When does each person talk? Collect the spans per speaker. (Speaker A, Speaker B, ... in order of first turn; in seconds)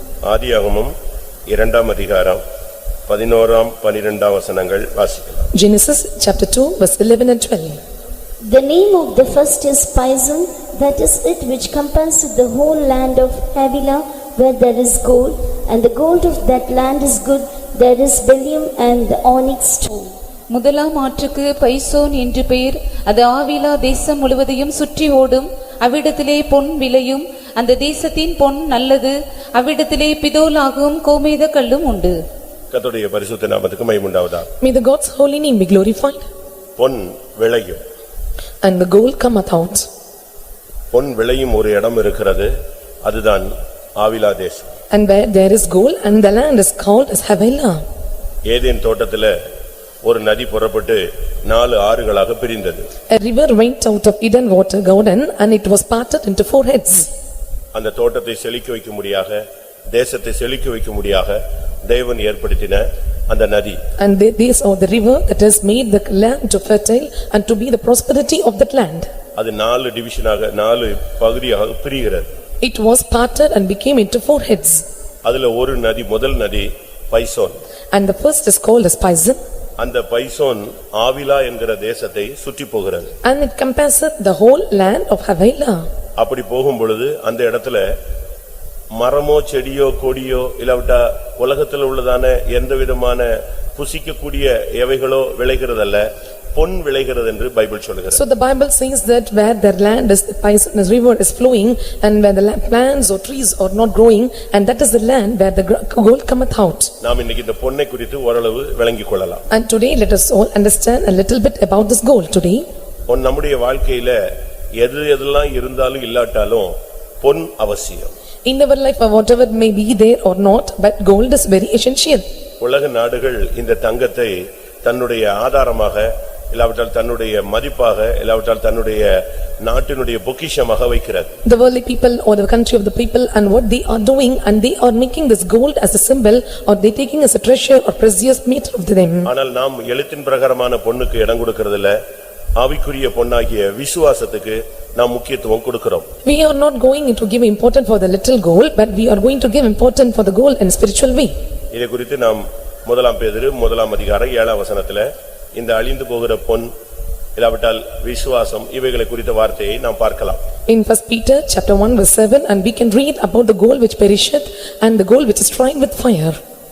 Speaker A: 0.2-0.9, 1.5-2.4, 3.1-5.5, 32.7-34.5, 36.8-37.8, 40.9-42.5, 43.0-44.7, 48.5-49.3, 50.0-52.9, 57.7-63.8, 69.3-72.3, 75.2-77.6, 79.8-83.1, 86.2-87.9, 89.0-98.2, 107.0-109.4, 113.1-114.2, 114.8-118.1, 122.6-131.3, 139.2-142.0, 142.6-146.1, 151.7-156.7, 157.3-160.4
Speaker B: 5.5-7.8, 34.6-36.3, 38.6-39.9, 44.9-47.8, 53.1-57.1, 64.0-69.1, 72.6-74.8, 77.9-79.4, 83.2-85.9, 98.1-106.9, 109.5-112.7, 118.5-122.2, 131.4-139.3, 146.2-151.3, 160.7-166.4
Speaker C: 8.4-20.1
Speaker D: 20.5-32.1